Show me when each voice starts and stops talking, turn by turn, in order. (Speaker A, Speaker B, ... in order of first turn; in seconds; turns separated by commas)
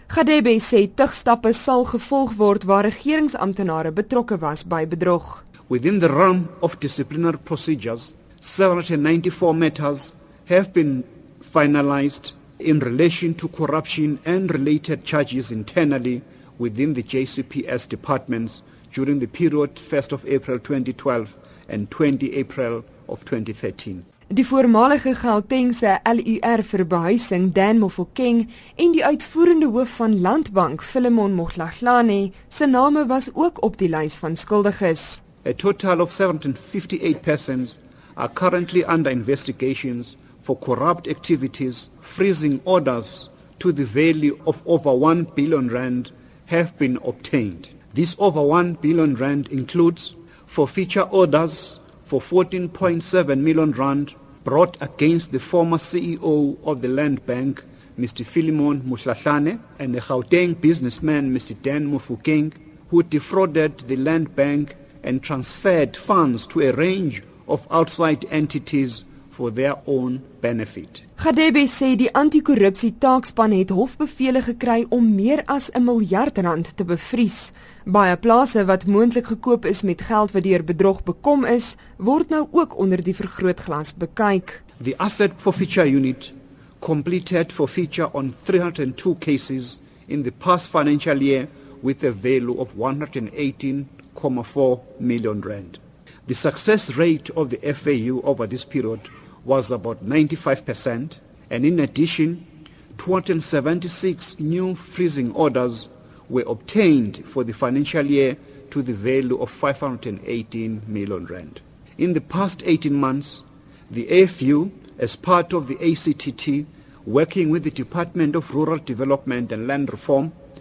Speaker A: 0.1-5.4, Speaker B: 5.7-24.1, Speaker A: 24.3-35.2, Speaker B: 35.4-71.0, Speaker A: 71.2-84.6, Speaker B: 84.8-120.3